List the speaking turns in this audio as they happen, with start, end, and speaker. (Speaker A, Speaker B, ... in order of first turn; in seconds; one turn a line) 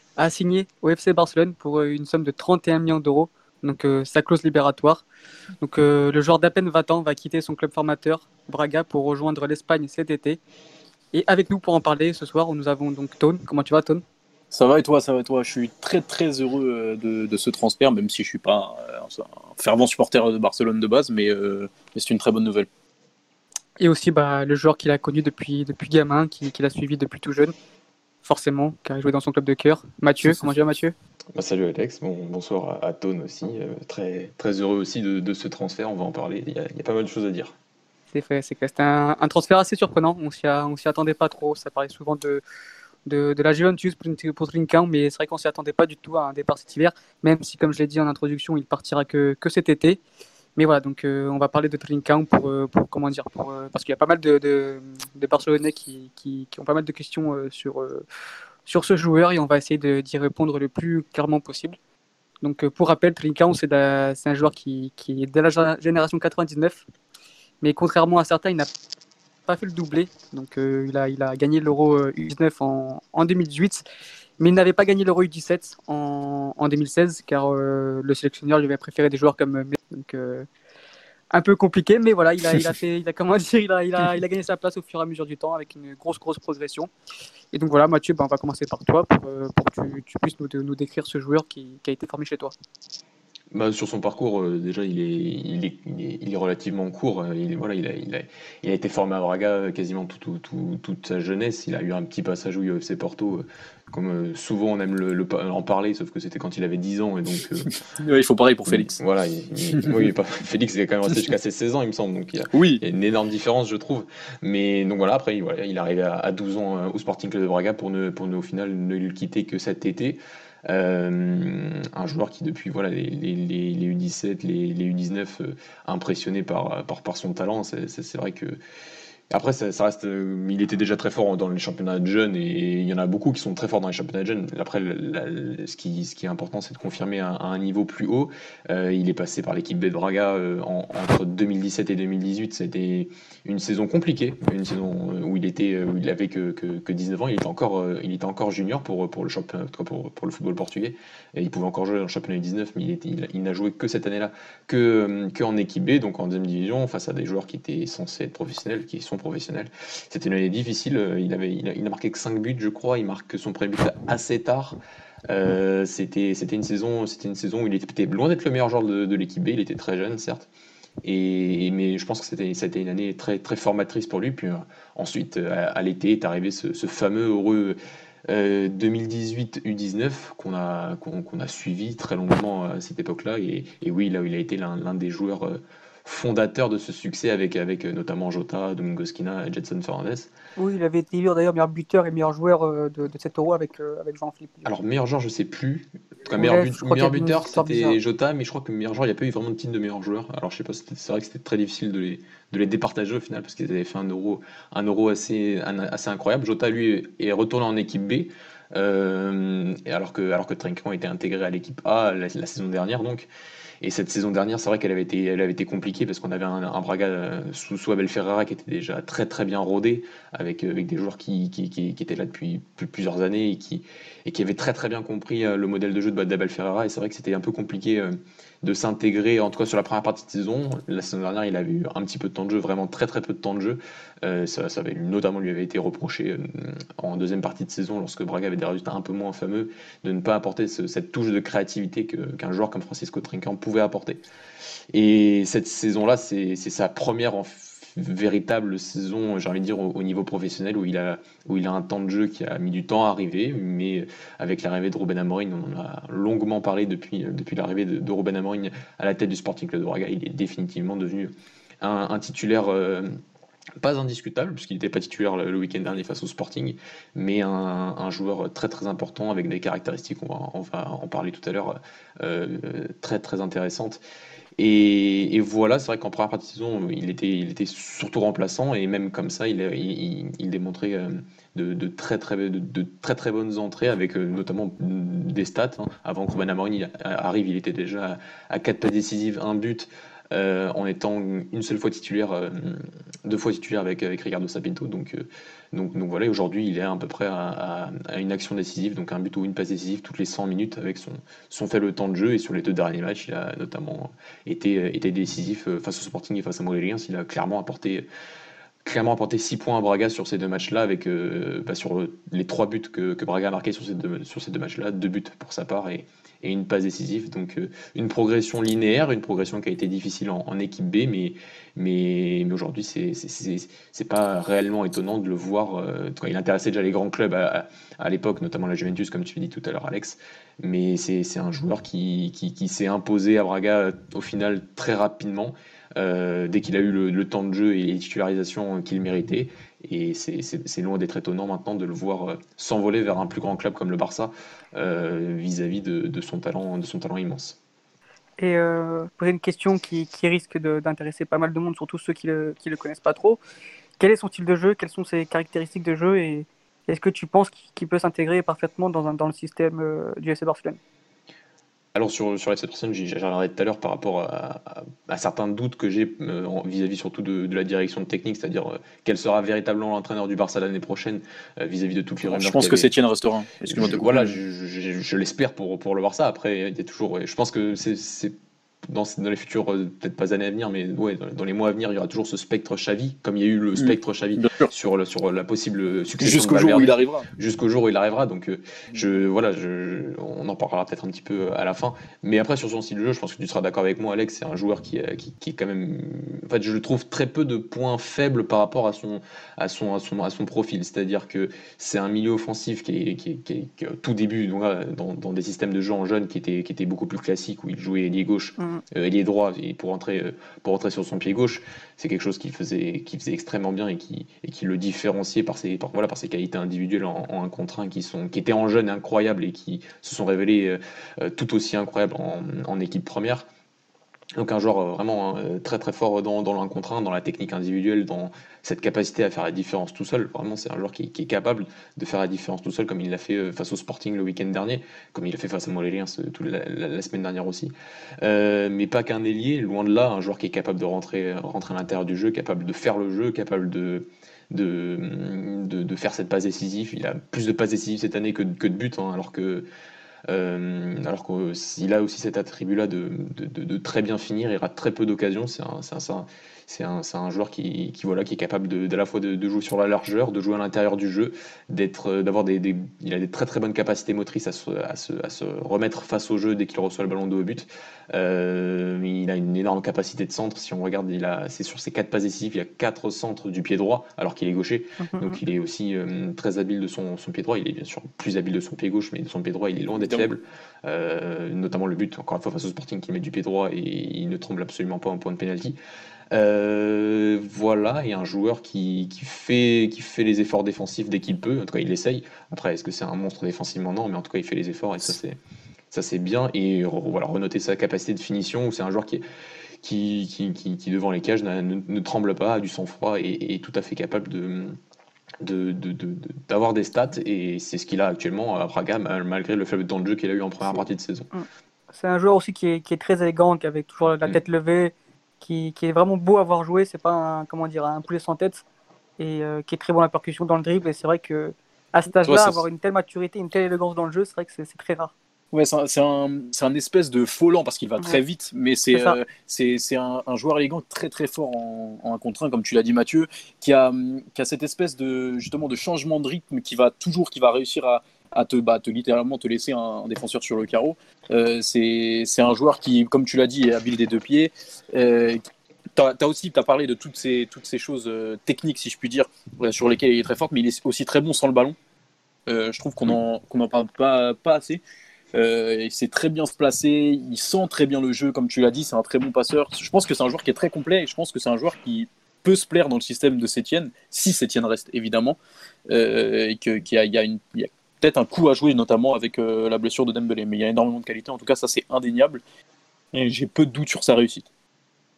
Speaker A: 0.2-5.0
Speaker A: 5.6-10.4
Speaker A: 11.1-14.0
Speaker B: 14.5-22.7
Speaker A: 23.8-27.5
Speaker A: 28.2-30.9
Speaker C: 30.2-30.5
Speaker C: 31.4-37.5
Speaker A: 38.1-42.4
Speaker A: 43.1-50.0
Speaker A: 50.6-58.0
Speaker A: 58.7-61.8
Speaker A: 62.4-66.8
Speaker A: 67.6-68.7
Speaker A: 69.5-73.8
Speaker A: 74.4-80.5
Speaker A: 81.3-86.9
Speaker A: 87.5-92.5
Speaker C: 93.5-107.7
Speaker B: 107.7-109.0
Speaker C: 108.7-128.6
Speaker B: 109.7-110.0
Speaker B: 112.5-112.8
Speaker C: 129.3-164.8
Speaker C: 165.3-170.5
Speaker C: 171.0-177.8
Speaker C: 178.3-190.3
Speaker A: 190.6-194.7
Speaker C: 194.7-213.3
Speaker A: 196.4-198.0
Speaker C: 213.8-244.2
Speaker C: 244.9-263.1
Speaker C: 263.8-274.0
Speaker C: 274.6-308.1
Speaker C: 308.8-347.6
Speaker A: 348.4-353.4
Speaker A: 354.0-360.8
Speaker C: 361.9-372.9
Speaker B: 372.3-374.4
Speaker C: 373.7-378.3
Speaker C: 378.9-423.5
Speaker B: 383.8-384.7
Speaker B: 386.2-387.3
Speaker A: 408.6-408.8
Speaker C: 424.4-449.7
Speaker C: 450.3-485.8
Speaker A: 475.0-475.4
Speaker B: 480.0-480.3
Speaker C: 486.3-495.4
Speaker C: 495.9-499.2
Speaker C: 499.8-504.8
Speaker C: 505.4-511.3
Speaker A: 511.3-518.6
Speaker A: 519.2-525.1
Speaker C: 522.3-522.6
Speaker B: 525.5-545.4
Speaker A: 528.9-529.2
Speaker B: 546.0-551.8
Speaker B: 552.5-554.8
Speaker B: 555.3-565.4
Speaker B: 565.9-572.4
Speaker B: 573.1-574.5